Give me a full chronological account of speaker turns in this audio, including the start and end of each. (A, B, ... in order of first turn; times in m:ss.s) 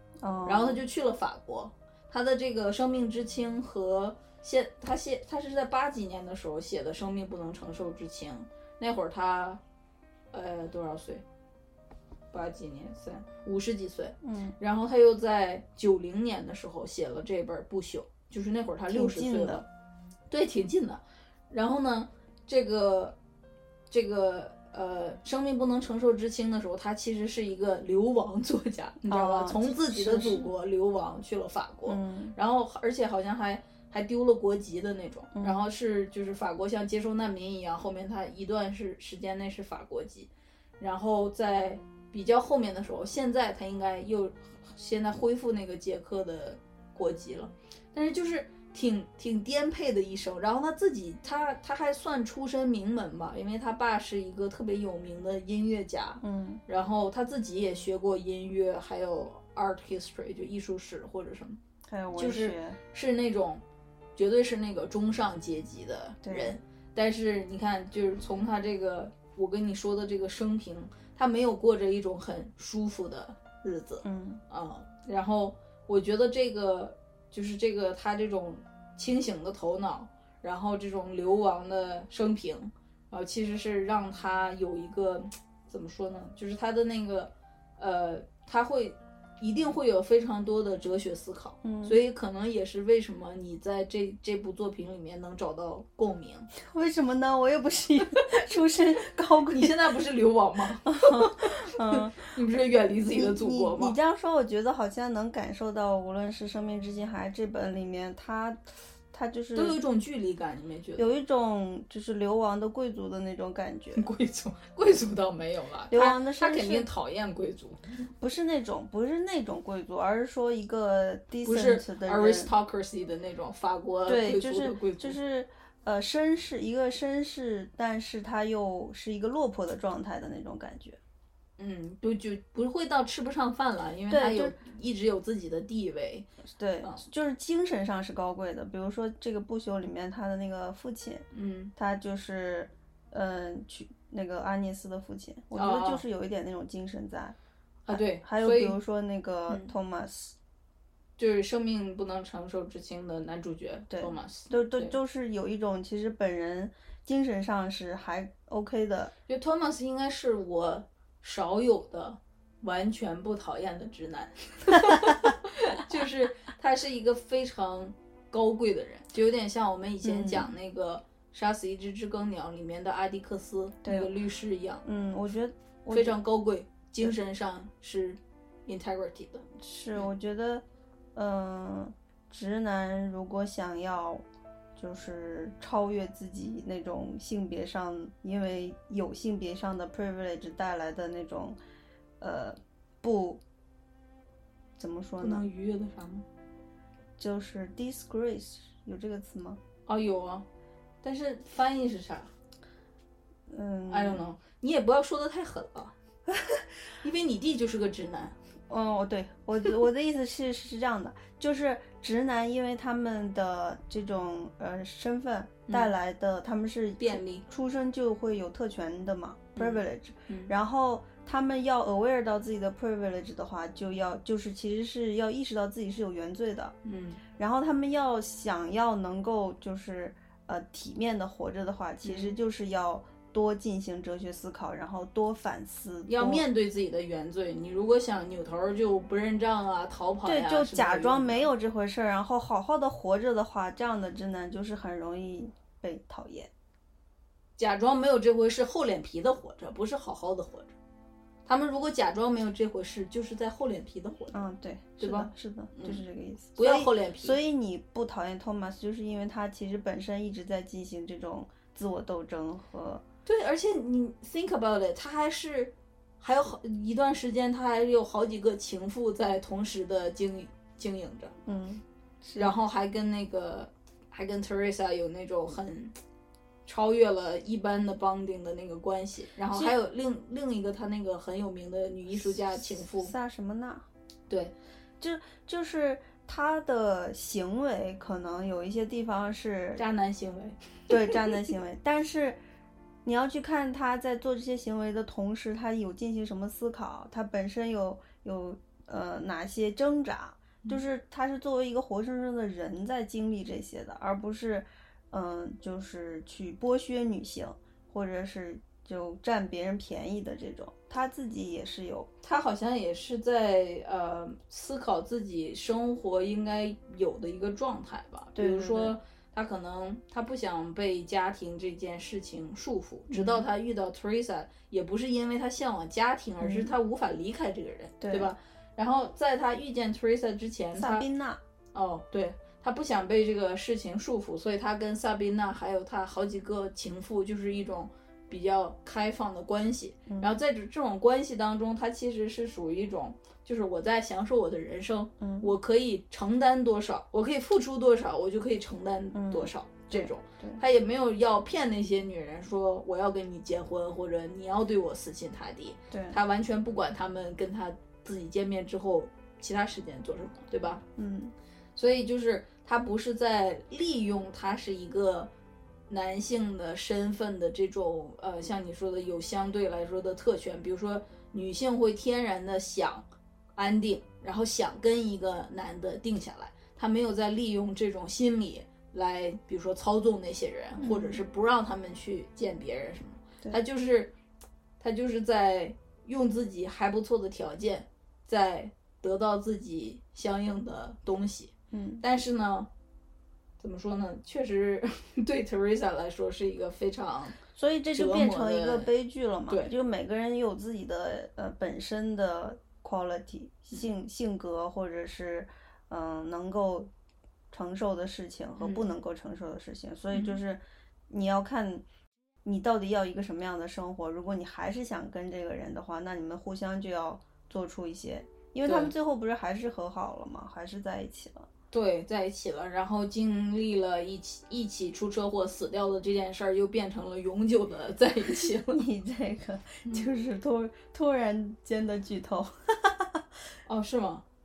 0:00.2-0:00.8 A
0:00.4-0:09.6 B
0:10.3-0:11.2 B
0:12.3-0:19.7 B
0:14.2-0:14.6 A
0:18.9-0:19.6 A
0:20.3-0:23.2 B
0:23.9-1:01.6 B
0:29.1-0:30.5 A
0:31.9-0:32.4 A
0:35.3-0:35.6 A
0:56.2-0:56.6 A
1:01.9-1:02.8 A
1:02.2-1:03.6 B
1:04.2-1:36.5 B
1:06.2-1:06.6 A
1:14.0-1:14.4 A
1:31.6-1:32.0 A
1:36.6-1:39.8 A
1:39.5-1:44.0 B
1:40.9-1:42.3 A
1:43.0-1:49.8 A
1:49.6-1:51.1 B
1:51.0-1:54.1 A
1:54.0-1:57.8 B
1:55.9-1:56.9 A
1:58.2-2:02.5 A
2:01.4-2:05.2 B
2:04.1-2:11.0 A
2:11.6-2:16.3 B
2:14.1-2:14.6 A
2:16.5-2:21.2 A
2:21.3-2:21.7 B
2:21.8-2:27.4 A
2:25.6-2:26.0 B
2:27.9-2:28.8 B
2:27.9-2:30.4 A
2:31.2-2:35.0 B
2:33.9-2:39.1 A
2:39.3-2:54.8 B
2:50.0-2:50.5 A
2:53.8-2:54.1 A
2:54.8-2:56.2 A
2:55.9-3:00.1 B
2:59.6-3:04.2 A
3:04.8-3:11.6 A
3:12.2-3:13.4 A
3:14.8-3:15.4 A
3:15.2-3:16.3 B
3:17.2-3:19.6 A
3:19.9-3:20.5 B
3:21.0-3:22.3 B
3:23.5-3:24.3 A
3:23.9-3:25.9 B
3:26.3-3:26.6 A
3:27.0-3:28.4 B
3:28.7-3:46.8 A
3:37.0-3:37.4 B
3:39.6-3:40.5 B
3:46.8-3:47.2 B
3:47.4-3:56.5 A
3:52.0-3:52.4 B
3:56.1-4:01.5 B
4:00.2-4:06.5 A
4:07.6-4:10.8 B
4:11.5-4:16.0 B
4:14.3-4:23.0 A
4:16.6-4:17.4 B
4:23.3-4:31.3 B
4:31.5-4:32.5 A
4:32.4-4:36.0 B
4:36.7-4:43.1 B
4:42.8-4:43.9 A
4:44.3-4:44.6 B
4:45.0-4:49.8 A
4:49.8-4:51.4 B
4:50.9-4:52.4 A
4:53.0-5:12.1 A
5:12.2-5:31.1 B
5:18.4-5:19.0 A
5:23.1-5:23.5 A
5:26.4-5:26.7 A
5:28.0-5:28.3 A
5:30.8-5:31.4 A
5:31.7-6:00.8 B
5:40.1-5:40.4 A
5:45.2-5:45.5 A
5:49.1-5:50.6 A
5:55.9-5:56.2 A
6:01.0-6:01.4 A
6:01.8-6:05.3 B
6:05.9-6:24.1 B
6:20.8-6:21.2 A
6:24.8-6:32.7 B
6:31.7-6:32.0 A
6:33.6-6:37.4 B
6:37.5-6:46.9 A
6:37.9-6:38.9 B
6:47.5-6:51.8 A
6:48.6-6:48.9 B
6:50.1-6:50.4 B
6:52.4-7:01.5 A
6:58.6-6:58.9 B
7:01.7-7:08.9 B
7:08.3-7:13.2 A
7:13.7-7:14.2 B